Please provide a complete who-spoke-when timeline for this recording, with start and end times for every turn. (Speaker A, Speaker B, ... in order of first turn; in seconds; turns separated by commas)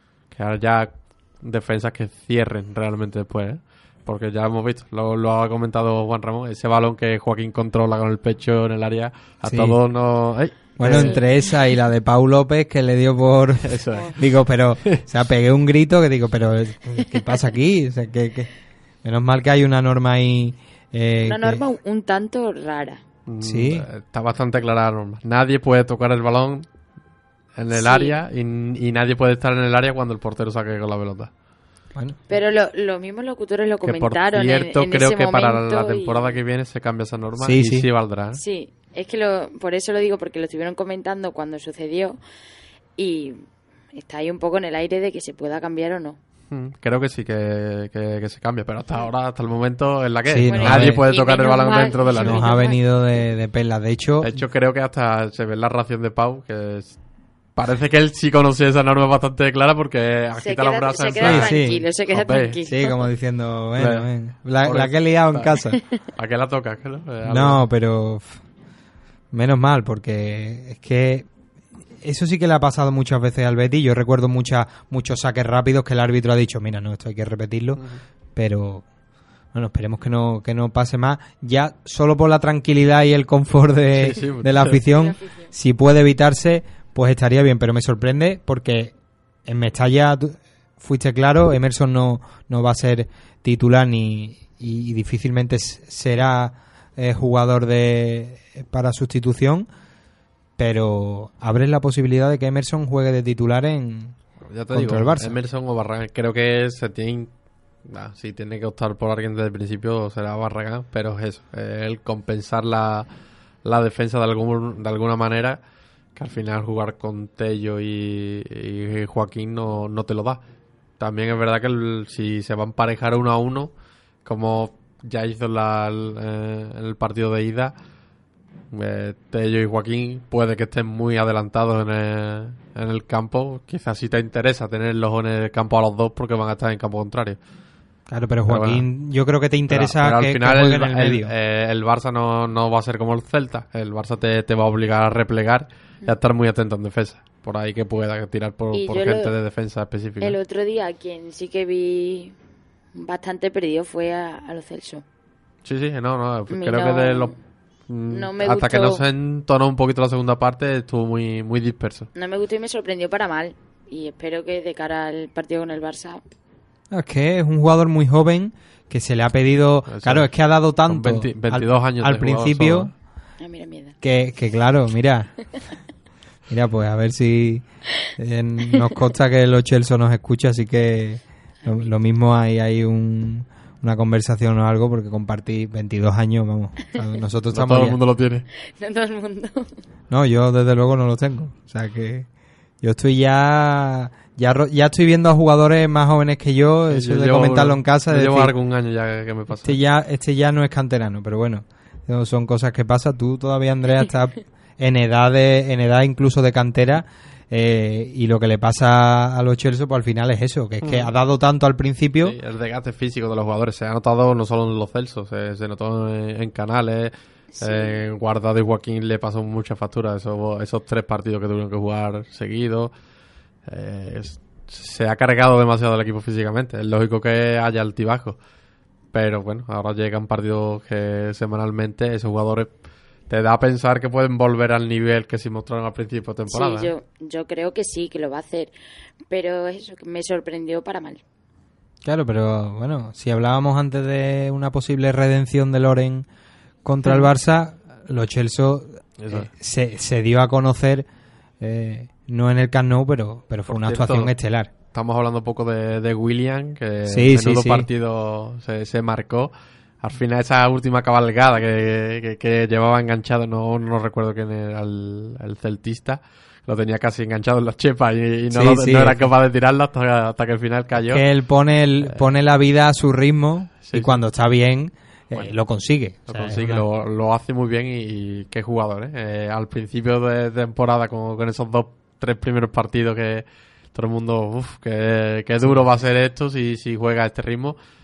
Speaker A: 0.3-11.2, Speaker B: 9.4-9.8, Speaker B: 10.8-18.5, Speaker C: 11.0-11.2, Speaker A: 13.6-14.2, Speaker B: 19.0-21.6, Speaker C: 21.2-23.0, Speaker A: 23.2-26.7, Speaker B: 23.4-23.9, Speaker A: 27.5-31.3, Speaker C: 27.7-28.2, Speaker C: 32.3-36.4, Speaker A: 33.8-38.4, Speaker B: 37.4-37.9, Speaker C: 38.3-42.2, Speaker C: 43.0-43.4, Speaker C: 43.9-46.2, Speaker A: 46.5-52.5, Speaker B: 50.3-51.0, Speaker C: 50.5-53.1, Speaker B: 52.2-54.4, Speaker A: 54.2-57.0, Speaker A: 57.5-62.6, Speaker C: 60.4-63.0, Speaker B: 61.2-61.8, Speaker B: 62.6-65.8, Speaker A: 63.8-64.1, Speaker A: 64.6-65.5, Speaker A: 66.1-67.6, Speaker B: 67.2-68.4, Speaker B: 69.3-71.3, Speaker B: 72.0-77.8, Speaker B: 78.3-78.8, Speaker B: 79.5-88.9, Speaker A: 83.9-84.8, Speaker C: 84.7-85.5, Speaker B: 89.5-99.7, Speaker B: 100.6-104.1, Speaker A: 104.4-107.3, Speaker B: 104.7-105.3, Speaker A: 107.8-113.1, Speaker A: 113.6-115.6, Speaker A: 116.1-120.4, Speaker A: 121.0-123.7, Speaker A: 124.2-127.7, Speaker A: 128.7-137.4, Speaker B: 138.1-141.3, Speaker A: 138.5-138.8, Speaker A: 139.7-150.3, Speaker C: 148.7-149.3, Speaker C: 150.2-152.3, Speaker C: 152.9-155.0, Speaker A: 155.6-157.3, Speaker C: 156.5-157.3, Speaker A: 157.9-162.1, Speaker C: 158.1-159.0, Speaker C: 162.1-166.2, Speaker B: 166.9-172.9, Speaker A: 169.9-170.3, Speaker A: 170.9-172.9, Speaker C: 173.4-173.9, Speaker B: 174.0-175.3, Speaker B: 176.5-177.6, Speaker B: 178.2-188.0, Speaker A: 187.5-188.4, Speaker C: 188.8-189.8, Speaker B: 190.1-192.3, Speaker B: 192.8-198.5, Speaker A: 196.9-199.8, Speaker B: 199.6-212.3, Speaker A: 210.8-211.1, Speaker A: 212.2-222.9, Speaker C: 217.5-218.0, Speaker A: 223.7-228.4, Speaker A: 229.1-232.7, Speaker A: 233.3-236.9, Speaker C: 236.5-238.7, Speaker C: 239.3-241.2, Speaker B: 242.0-246.2, Speaker B: 246.8-251.0, Speaker A: 249.2-249.5, Speaker B: 251.6-254.7, Speaker A: 253.7-254.3, Speaker A: 254.9-271.2, Speaker B: 257.1-257.9, Speaker B: 268.5-269.3, Speaker B: 271.0-276.8, Speaker A: 273.9-274.1, Speaker A: 276.3-287.8